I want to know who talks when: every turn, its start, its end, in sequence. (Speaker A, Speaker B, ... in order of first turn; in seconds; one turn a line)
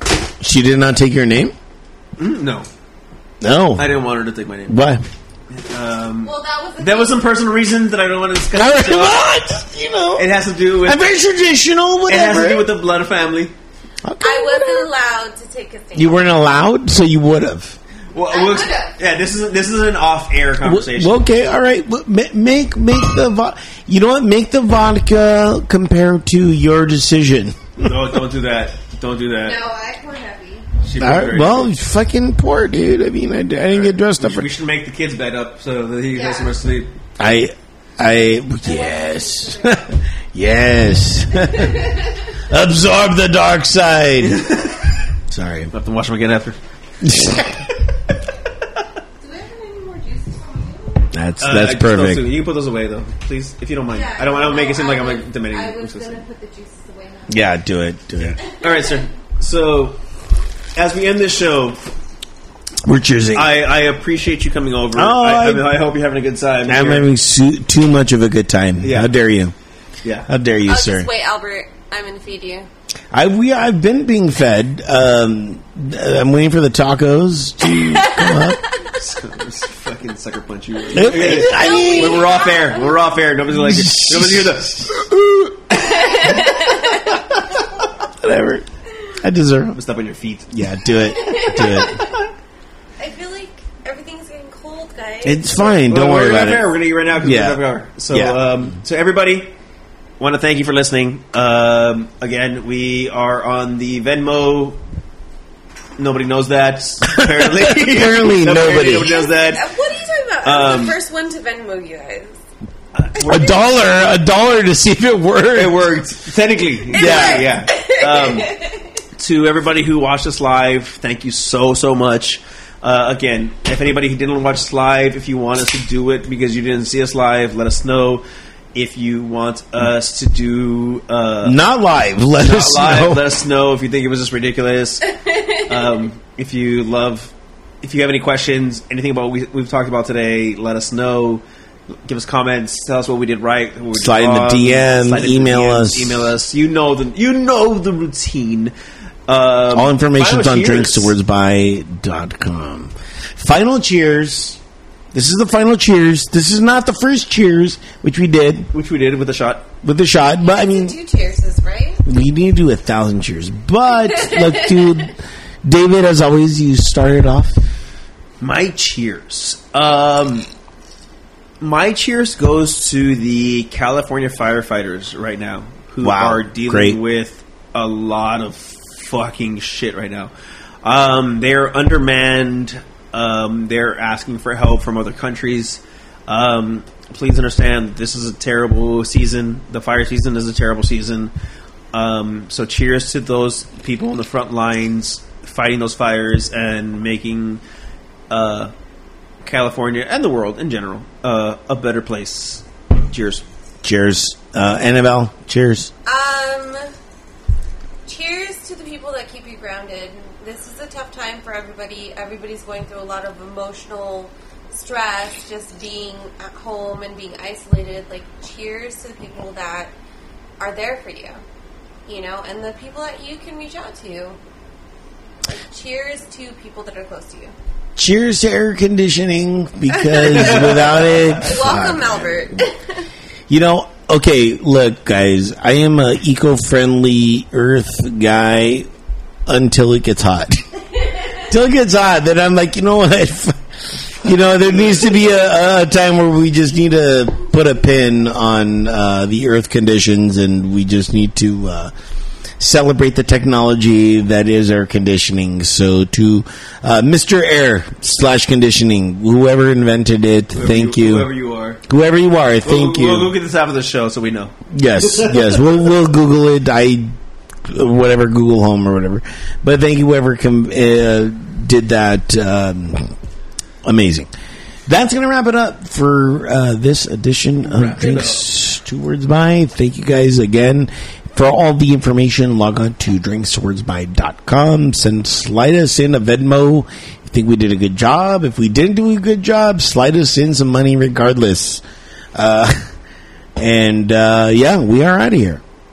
Speaker A: 0.4-1.5
Speaker B: 2.2-2.7
Speaker A: 3.4-3.9
Speaker B: 3.8-4.8
Speaker A: 4.7-5.0
Speaker B: 5.5-9.2
Speaker C: 6.2-7.2
Speaker A: 8.5-10.3
Speaker B: 10.2-11.1
Speaker A: 10.8-12.7
Speaker B: 12.1-13.6
Speaker A: 14.0-14.9
Speaker C: 14.2-16.4
Speaker A: 15.9-17.8
Speaker B: 18.1-21.2
Speaker C: 18.3-19.0
Speaker A: 20.6-27.9
Speaker B: 27.8-29.6
Speaker C: 29.4-30.7
Speaker B: 30.8-31.7
Speaker A: 31.0-34.5
Speaker B: 33.7-36.9
Speaker C: 36.1-36.5
Speaker A: 37.2-44.5
Speaker C: 38.6-39.9
Speaker C: 41.3-42.2
Speaker B: 44.3-44.8
Speaker A: 45.3-45.7
Speaker B: 45.7-46.6
Speaker A: 47.0-47.5
Speaker C: 49.2-51.1
Speaker A: 51.1-52.3
Speaker B: 51.4-56.2
Speaker C: 53.9-57.4
Speaker A: 57.3-58.4
Speaker C: 58.4-59.1
Speaker B: 58.6-60.0
Speaker B: 60.8-61.8
Speaker A: 62.8-63.5
Speaker B: 63.3-67.1
Speaker A: 65.0-65.7
Speaker A: 66.7-69.5
Speaker B: 68.8-69.2
Speaker B: 70.0-70.3
Speaker A: 70.3-71.1
Speaker C: 70.7-72.7
Speaker A: 73.1-78.6
Speaker C: 77.9-78.6
Speaker B: 78.9-84.9
Speaker A: 80.9-82.3
Speaker C: 81.1-83.0
Speaker A: 83.5-85.6
Speaker B: 85.7-86.5
Speaker C: 85.9-87.1
Speaker A: 88.2-88.7
Speaker A: 89.2-89.8
Speaker B: 89.8-90.6
Speaker A: 90.5-92.0
Speaker C: 91.1-92.1
Speaker B: 91.4-92.3
Speaker C: 93.0-95.5
Speaker A: 95.2-98.5
Speaker B: 95.6-99.5
Speaker B: 100.2-104.8
Speaker B: 106.0-109.6
Speaker A: 107.2-109.1
Speaker C: 109.0-112.3
Speaker B: 110.4-111.0
Speaker B: 113.0-113.6
Speaker A: 113.2-115.9
Speaker B: 115.5-118.5
Speaker C: 116.9-118.8
Speaker A: 116.9-117.5
Speaker B: 119.2-131.6
Speaker A: 131.4-133.2
Speaker B: 132.4-135.0
Speaker C: 135.2-135.8
Speaker B: 135.7-141.4
Speaker B: 142.0-148.7
Speaker A: 143.9-146.3
Speaker B: 149.3-151.1
Speaker A: 149.7-154.6
Speaker A: 155.1-158.7
Speaker B: 158.7-159.7
Speaker A: 159.8-161.0
Speaker C: 160.4-162.0
Speaker A: 162.0-167.6
Speaker C: 164.1-165.0
Speaker B: 168.4-170.5
Speaker B: 171.6-180.3
Speaker A: 176.0-177.0
Speaker B: 180.8-191.3
Speaker B: 191.9-197.6
Speaker B: 198.3-198.7
Speaker B: 199.4-203.4
Speaker A: 203.8-205.9
Speaker C: 206.1-206.9
Speaker C: 208.1-219.9
Speaker C: 220.6-221.4
Speaker C: 222.1-224.4
Speaker C: 225.4-227.5
Speaker A: 228.0-232.2
Speaker C: 229.9-233.1
Speaker B: 230.3-231.3
Speaker A: 233.5-238.9
Speaker A: 239.5-240.6
Speaker A: 241.5-251.9
Speaker A: 252.6-261.3
Speaker B: 260.5-261.8
Speaker A: 261.9-263.3
Speaker B: 262.6-265.9
Speaker A: 264.7-267.1
Speaker A: 267.6-273.1
Speaker A: 273.8-274.3
Speaker A: 274.9-291.8
Speaker B: 277.6-278.4
Speaker A: 292.4-292.8
Speaker A: 293.6-295.6